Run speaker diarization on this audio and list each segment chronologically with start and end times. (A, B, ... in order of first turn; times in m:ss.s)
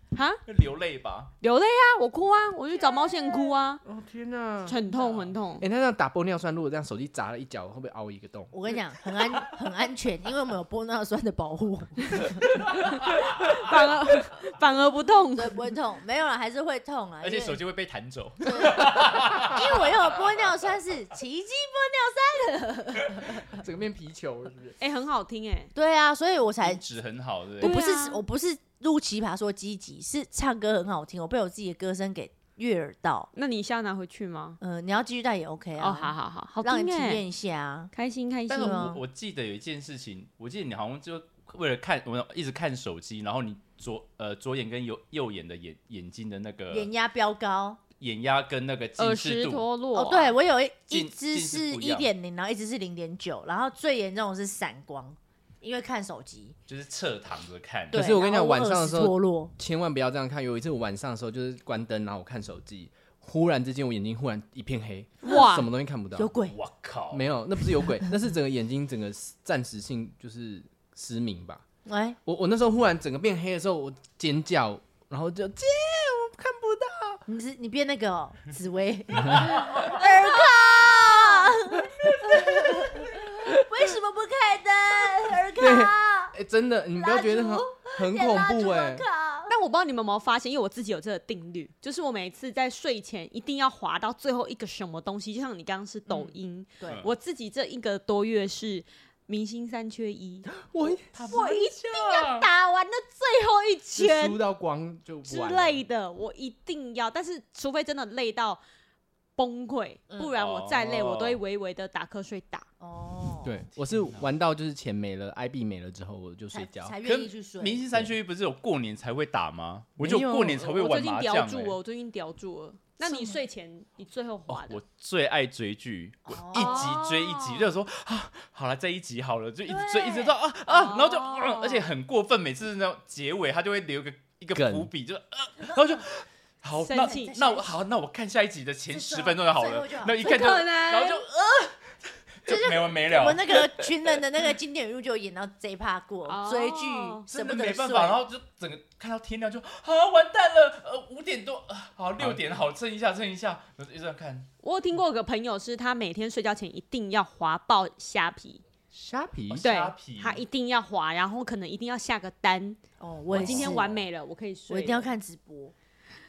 0:00.1-0:00.4 A
0:00.4-0:01.3 B
0:01.4-0:03.8 A
0:03.8-0:04.8 C
0:04.6-0:05.6 A
0:05.0-0:05.3 B
0:05.6-0:08.5 C
0:08.5-0:12.4 D
0:12.9-0:15.7 A
0:15.3-0:17.6 D
0:17.2-0:20.5 B
0:18.4-0:23.5 D
0:23.4-0:24.8 C
0:24.8-0:25.7 A
0:25.7-0:26.8 D
0:26.6-0:27.8 B
0:27.6-0:33.3 D
0:27.6-0:28.2 A
0:33.3-0:34.6 A
0:34.6-0:37.9 D
0:35.8-0:37.2 A
0:37.9-0:39.0 A
0:38.5-0:46.9 B
0:38.6-0:39.0 D
0:46.7-0:47.8 D
0:48.0-0:49.6 B
0:49.0-0:50.3 A
0:49.9-0:56.5 D
0:50.9-0:52.1 B
0:56.7-0:58.1 B
0:57.9-0:59.5 D
0:57.9-1:06.4 C
1:05.2-1:05.7 A
1:06.2-1:06.6 D
1:06.5-1:07.2 B
1:07.1-1:11.6 C
1:11.8-1:12.2 D
1:12.2-1:17.2 C
1:17.2-1:26.3 D
1:22.0-1:23.0 C
1:25.6-1:29.0 C
1:26.9-1:29.5 D
1:29.5-1:40.5 A
1:36.1-1:37.0 D
1:40.5-1:41.1 C
1:41.1-1:42.5 B
1:41.2-1:44.4 A
1:44.0-1:45.8 C
1:45.2-1:48.6 A
1:49.4-1:52.6 A
1:50.3-1:51.4 B
1:52.8-1:53.6 D
1:53.4-1:56.9 C
1:53.9-1:54.3 B
1:56.5-1:57.8 D
1:57.0-2:01.8 B
2:00.0-2:00.6 C
2:00.6-2:04.8 A
2:03.0-2:03.4 D
2:04.5-2:21.8 B
2:06.3-2:07.0 D
2:06.5-2:07.7 A
2:09.7-2:10.3 D
2:10.7-2:11.9 A
2:14.5-2:14.9 C
2:16.8-2:17.3 A
2:16.9-2:17.8 D
2:18.9-2:20.5 D
2:20.2-2:21.2 A
2:22.4-2:23.7 B
2:22.4-2:28.2 D
2:26.2-2:27.2 A
2:27.3-2:34.5 B
2:34.6-2:38.6 A
2:38.9-2:39.6 C
2:39.5-2:40.4 B
2:39.6-2:42.8 A
2:43.0-2:43.9 D
2:43.3-2:44.0 B
2:43.3-2:45.1 A
2:44.7-2:45.7 D